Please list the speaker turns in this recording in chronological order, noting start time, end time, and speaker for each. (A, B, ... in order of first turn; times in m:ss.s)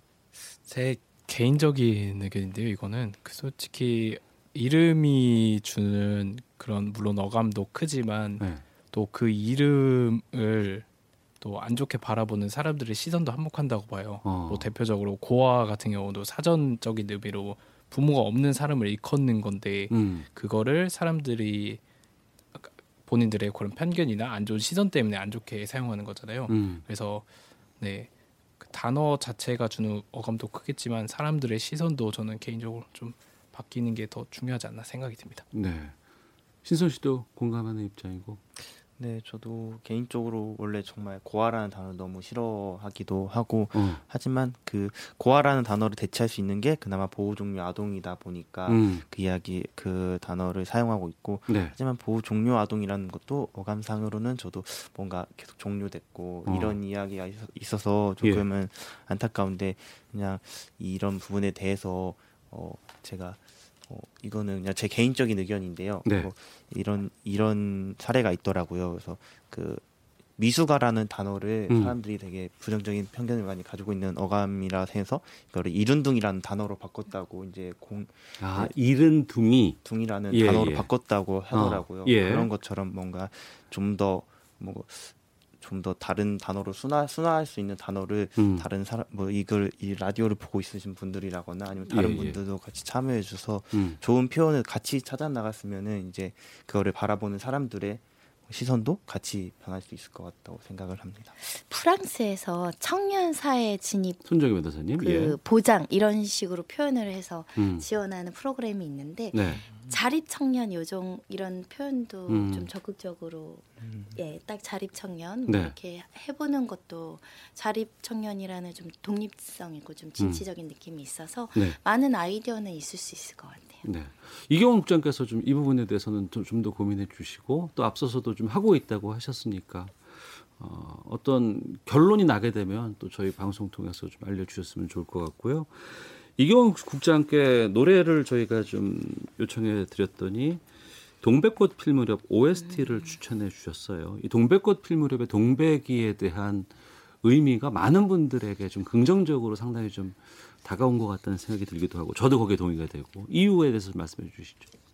0:00.6-0:10.9 A
0:11.4-0:21.8 A
0:14.2-0:14.7 B
0:19.9-0:20.3 B
0:22.5-0:27.2 A
0:26.5-0:26.8 B
0:27.8-0:28.1 A
0:28.6-0:35.4 A
0:35.5-0:36.0 B
0:36.6-0:38.4 B
0:38.8-1:09.8 C
0:43.7-0:44.0 B
0:48.7-0:49.0 B
0:51.5-0:51.7 B
0:56.5-0:56.8 B
1:06.0-1:06.3 B
1:10.4-1:18.7 C
1:11.7-1:12.0 B
1:18.4-1:19.8 B
1:19.8-1:41.3 C
1:20.3-1:20.9 B
1:21.5-1:22.5 B
1:28.4-1:28.7 B
1:31.9-1:32.4 B
1:33.7-1:34.0 B
1:41.4-1:44.2 D
1:44.2-1:45.4 B
1:44.9-2:03.8 D
1:47.6-1:47.9 B
1:49.3-1:49.7 B
1:52.3-1:52.7 B
1:55.4-1:55.7 B
2:00.2-2:00.4 B
2:03.8-2:20.6 B
2:21.2-2:34.7 B